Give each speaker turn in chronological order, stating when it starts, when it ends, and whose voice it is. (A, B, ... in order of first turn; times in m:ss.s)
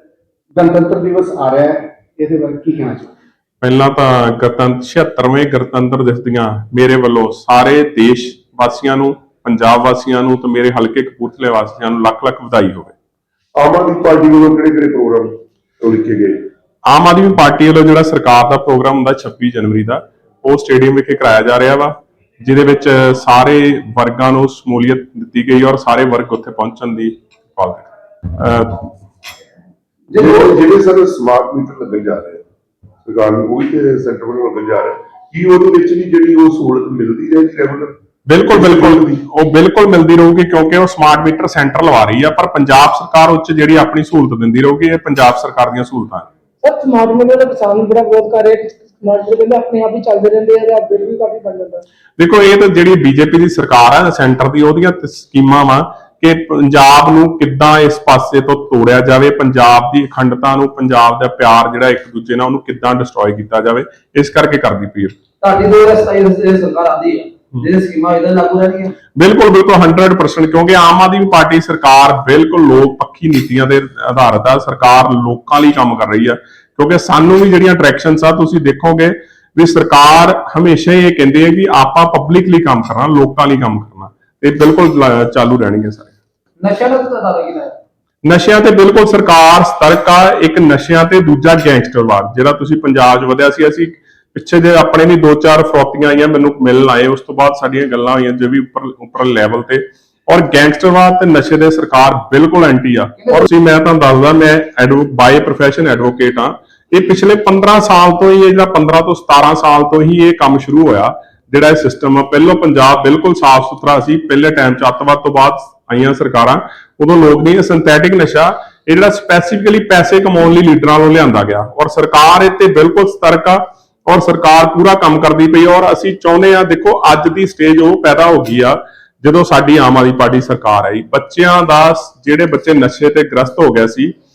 0:00.5-0:03.1 A
0:03.6-0:12.9 B
0:13.6-0:16.5 C
0:16.8-0:28.9 B
0:30.2-0:32.4 C
0:33.0-0:37.9 C
0:38.3-0:46.3 B
0:38.5-0:39.2 C
0:46.6-0:51.8 D
0:52.2-1:05.2 B
1:05.4-1:08.9 E
1:09.2-1:26.1 B
1:26.6-1:27.7 E
1:28.2-2:14.1 B
1:43.2-1:43.4 E